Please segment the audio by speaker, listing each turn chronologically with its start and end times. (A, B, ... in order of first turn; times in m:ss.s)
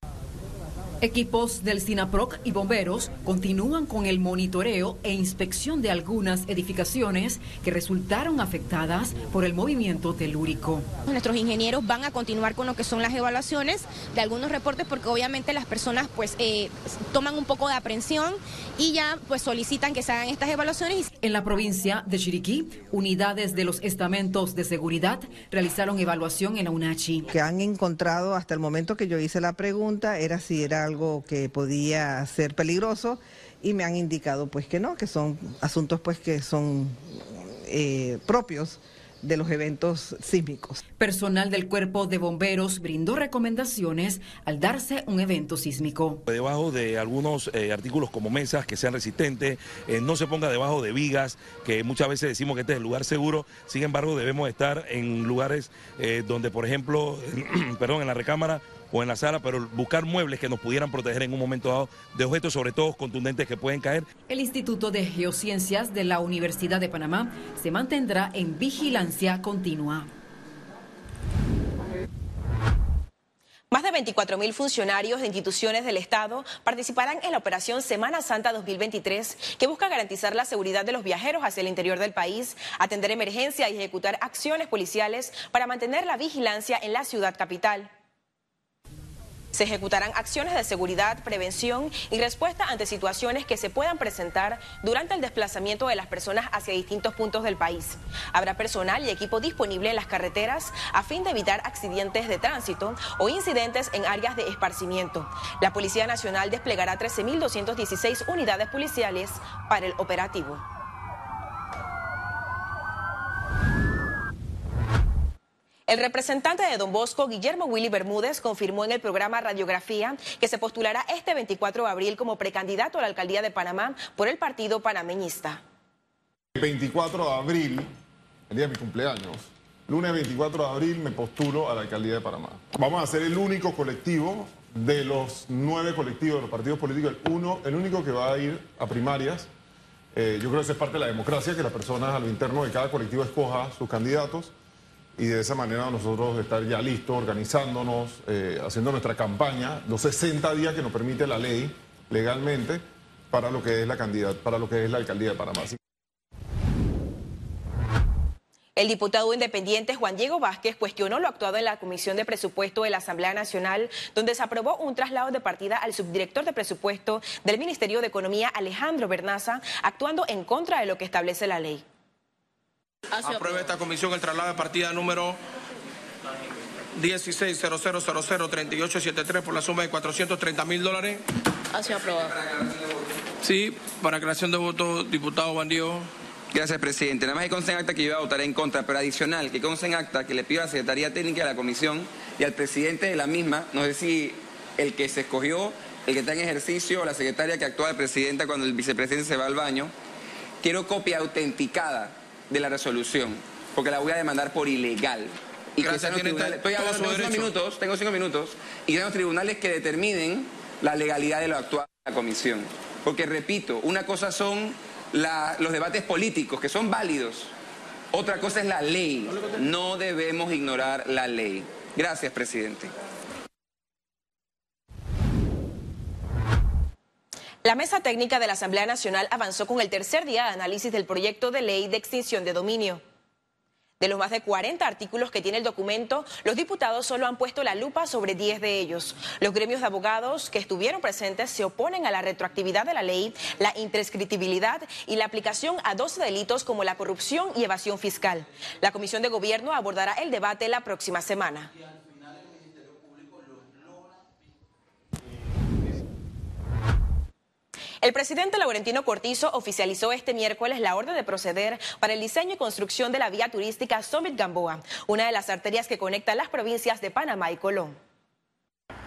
0:01.0-0:10.8 A
0:11.1-0:21.0 B
0:21.2-0:27.3 A
0:27.3-0:40.8 C
0:41.0-0:46.2 A
0:46.3-1:04.1 D
1:04.3-1:10.1 A
1:13.7-1:27.9 E
1:29.5-1:50.6 E
1:55.9-2:05.6 E
2:06.6-2:07.9 F
2:08.5-2:19.5 F
2:20.1-2:24.5 F
2:25.2-2:35.8 F
2:38.8-2:51.8 E
2:53.2-2:55.4 G
2:56.9-3:01.2 G
3:01.8-3:02.3 G
3:02.1-3:03.0 H
3:03.4-3:06.1 G
3:06.5-3:19.9 H
3:20.6-3:37.5 H
3:25.8-3:27.3 G
3:38.1-3:42.9 H
3:47.6-3:53.0 E
3:54.0-4:11.7 E
4:18.0-4:28.0 E